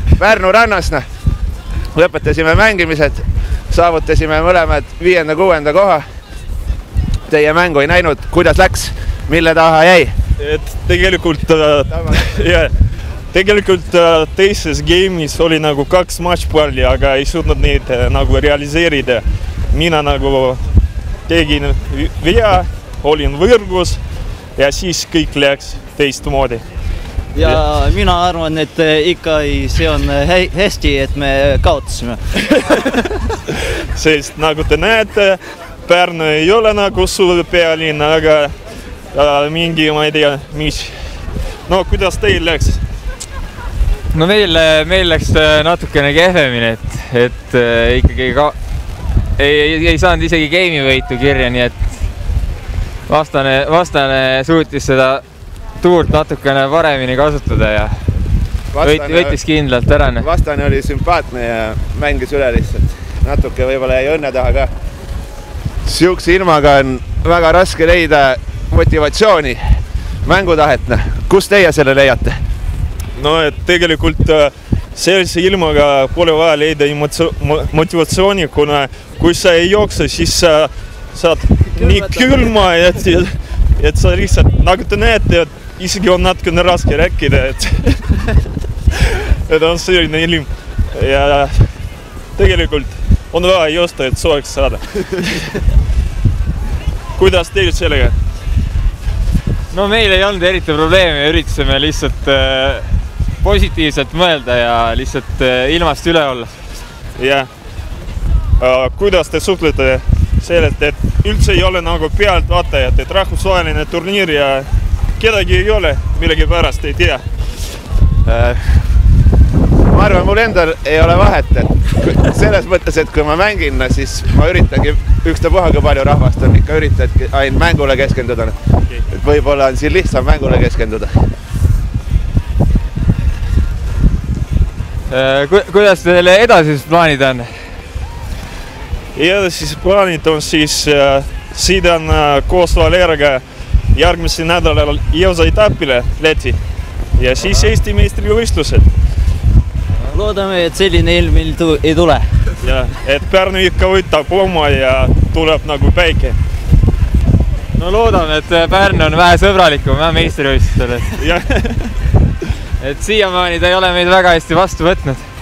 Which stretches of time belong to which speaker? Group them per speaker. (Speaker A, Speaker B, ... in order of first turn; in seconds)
Speaker A: 0.2-1.1, 1.9-6.0, 7.3-10.1, 58.7-59.4, 60.2-64.7, 65.8-69.6, 70.2-72.4, 118.2-118.8, 119.9-128.6, 129.1-131.1
Speaker B: 10.4-12.7, 13.3-20.6, 21.3-24.0, 24.6-26.6, 33.9-38.5, 39.1-42.8, 73.2-88.3, 88.9-91.8, 92.3-95.6, 97.2-98.2, 107.2-107.5, 108.6-117.2, 139.2-146.6, 147.2-148.9, 152.6-156.4, 161.2-162.0
Speaker C: 27.3-33.0, 81.8-82.3, 150.1-152.3
Speaker D: 44.1-48.6, 49.4-52.0, 53.1-55.2, 55.8-58.1, 58.8-60.3, 99.7-106.5, 135.1-137.5, 157.7-161.2, 162.8-165.3